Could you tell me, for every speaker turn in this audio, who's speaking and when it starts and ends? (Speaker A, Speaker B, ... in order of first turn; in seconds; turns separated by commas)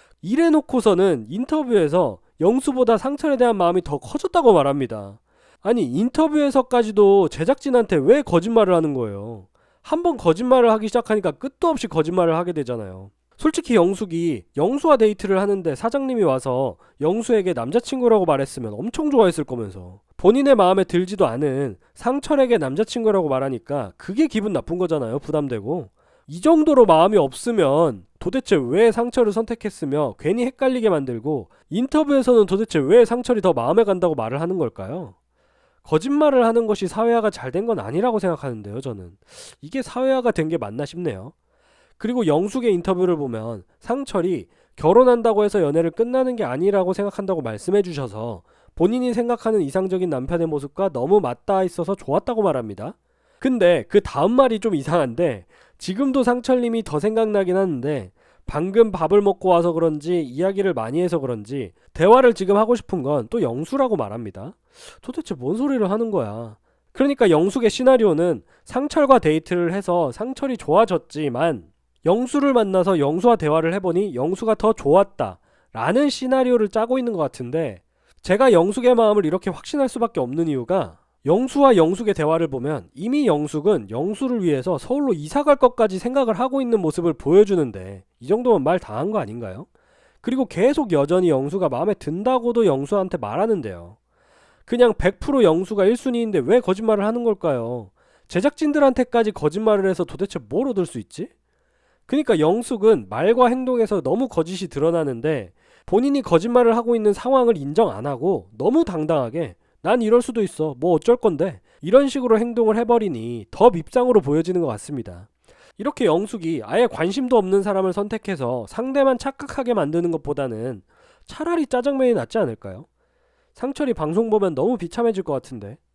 Speaker A: 0.2-35.1, Speaker A: 35.8-41.3, Speaker A: 42.0-89.7, Speaker A: 90.2-94.0, Speaker A: 94.7-101.3, Speaker A: 102.1-115.3, Speaker A: 115.8-122.9, Speaker A: 123.5-125.8